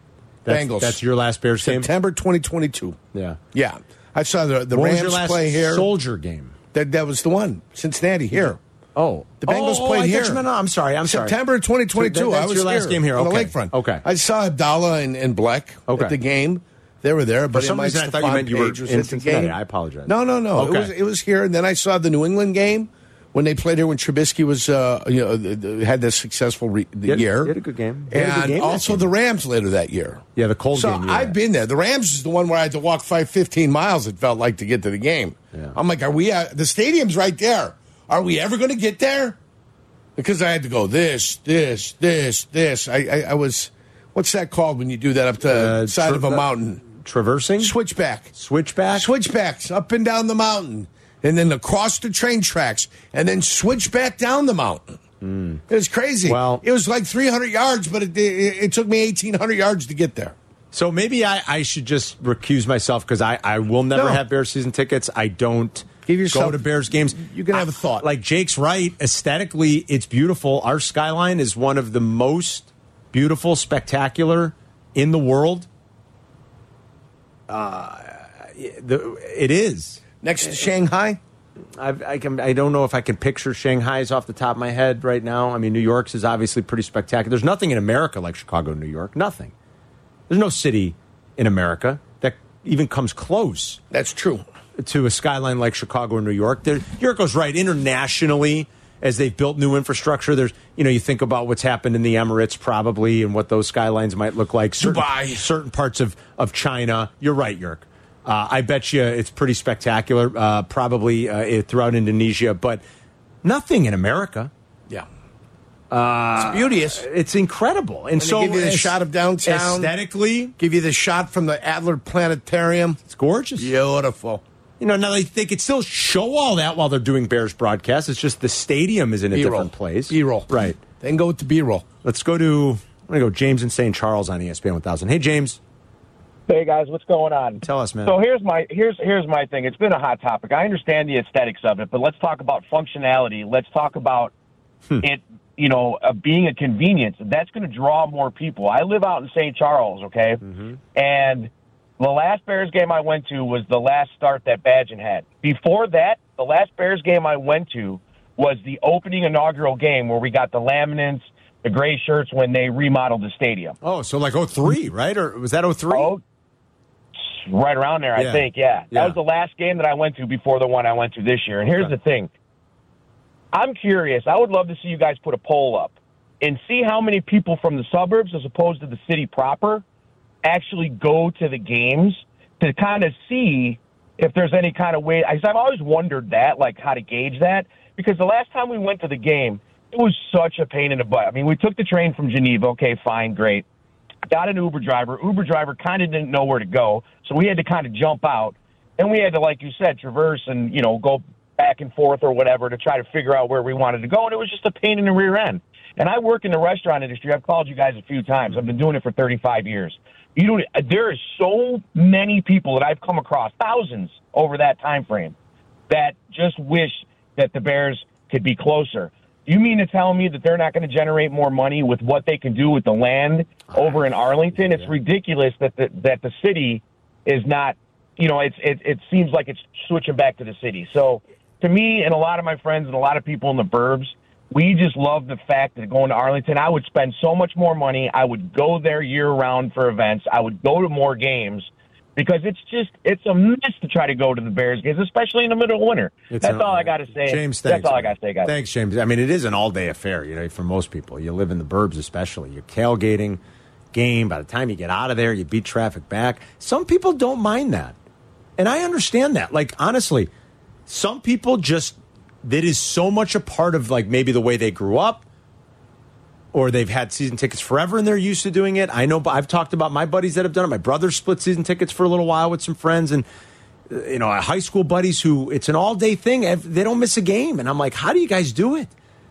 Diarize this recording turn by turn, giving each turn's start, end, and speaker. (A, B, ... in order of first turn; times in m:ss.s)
0:00.4-0:01.9 A
0:00.5-0:01.0 B
0:01.6-0:03.0 B
0:03.1-0:03.4 A
0:03.5-0:05.9 B
0:04.7-0:06.6 A
0:06.7-0:08.6 B
0:08.3-0:11.4 A
0:09.4-0:10.4 B
0:11.0-0:19.6 B
0:11.9-0:14.0 A
0:15.9-0:16.1 A
0:17.5-0:20.9 A
0:20.1-0:27.6 B
0:27.1-0:29.1 A
0:28.1-0:39.4 B
0:30.4-0:31.4 A
0:40.2-0:46.8 B
0:45.4-0:47.7 A
0:47.6-0:48.3 B
0:48.4-0:49.1 A
0:48.9-0:55.0 B
0:55.2-0:55.6 A
0:55.7-1:00.3 B
0:56.2-0:56.6 A
1:00.7-1:15.7 A
1:03.9-1:04.2 B
1:06.1-1:08.1 B
1:17.5-1:20.0 A
1:20.2-1:21.2 B
1:21.8-1:29.5 A
1:30.3-1:33.8 A
1:33.9-1:34.4 B
1:34.8-1:52.8 A
1:44.8-1:45.5 B
1:53.4-1:54.5 A
1:55.9-2:00.5 A
1:56.4-1:57.0 B
1:58.2-1:59.9 B
2:00.6-2:03.0 B
2:03.1-2:03.7 A
2:03.6-2:04.4 B
2:04.8-2:10.8 A
2:09.3-2:11.9 B
2:12.0-2:15.6 A
2:16.5-2:24.3 C
2:17.6-2:18.2 A
2:25.0-2:30.4 C
2:30.5-2:30.8 A
2:30.9-2:43.8 C
2:43.8-2:46.1 A
2:45.9-2:46.2 C
2:47.3-2:52.3 C
2:48.2-2:49.2 A
2:53.5-2:59.8 C
3:00.4-3:13.6 C
3:14.3-3:35.4 C
3:35.9-4:08.5 C
3:44.6-3:44.9 A
4:06.3-4:13.4 A
4:13.9-4:18.0 A
4:18.6-4:20.3 A
4:20.9-4:25.2 A
4:26.5-4:33.3 A
4:33.9-4:38.9 A